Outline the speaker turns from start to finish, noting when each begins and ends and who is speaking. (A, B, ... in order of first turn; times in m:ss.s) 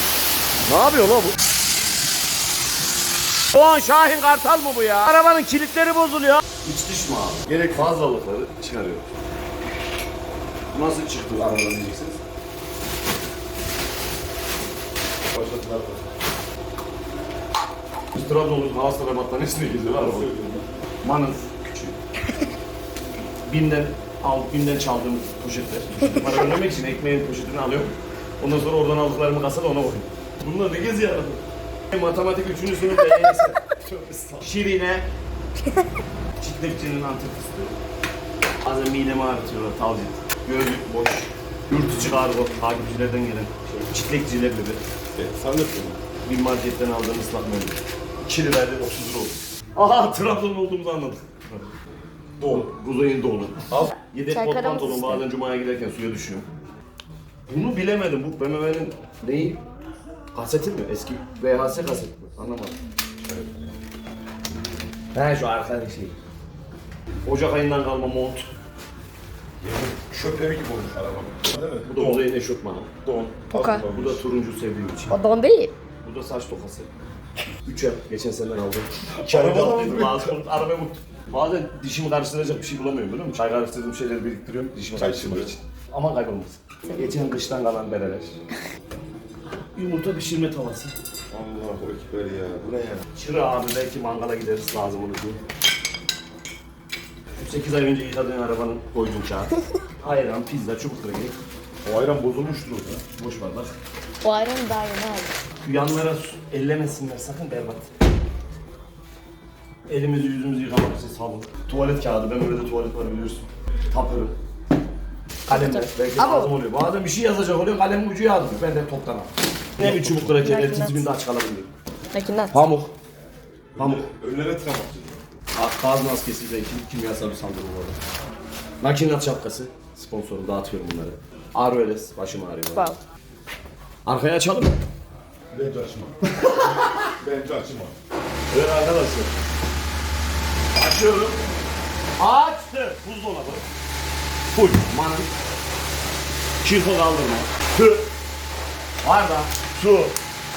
0:00.7-0:01.4 A
0:03.5-0:09.1 A
0:07.5-0:07.8 B
0:10.7-0:12.2 A
0:15.3-0:16.0 B
0:18.1-0:20.3 A
0:20.0-0:20.7 B
0:21.0-0:22.0 A
0:23.4-0:35.1 A
0:36.4-0:37.8 A
0:38.6-0:44.8 A
0:45.2-0:46.0 B
0:46.2-0:51.6 A
0:52.4-0:56.5 A
0:54.3-0:55.2 C
0:57.5-0:59.6 A
1:00.3-1:02.8 A
1:03.2-1:03.7 B
1:05.1-1:06.2 A
1:07.2-1:08.5 A
1:09.6-1:12.2 B
1:11.8-1:12.9 A
1:13.0-1:14.2 B
1:13.5-1:13.8 C
1:13.9-1:15.2 A
1:15.1-1:15.7 C
1:16.0-1:16.9 A
1:17.6-1:28.4 A
1:19.2-1:20.3 B
1:25.0-1:25.5 B
1:29.6-1:30.9 A
1:31.3-1:33.0 B
1:33.1-1:35.4 A
1:37.4-1:41.4 A
1:41.9-1:43.0 B
1:42.2-1:43.7 A
1:44.2-1:45.3 C
1:45.6-1:47.9 A
1:49.9-1:54.3 A
1:55.5-2:01.7 A
1:55.5-1:56.5 C
1:59.8-2:01.0 C
2:02.1-2:02.5 C
2:02.5-2:02.9 A
2:03.7-2:05.2 B
2:03.8-2:04.1 A
2:05.6-2:08.0 A
2:08.8-2:13.0 A
2:14.0-2:14.8 A
2:15.5-2:16.2 B
2:16.4-2:17.1 A
2:17.2-2:17.9 B
2:18.5-2:19.3 A
2:20.7-2:21.4 A
2:22.2-2:23.7 A
2:24.5-2:25.3 A
2:26.6-2:28.1 A
2:29.0-2:30.2 A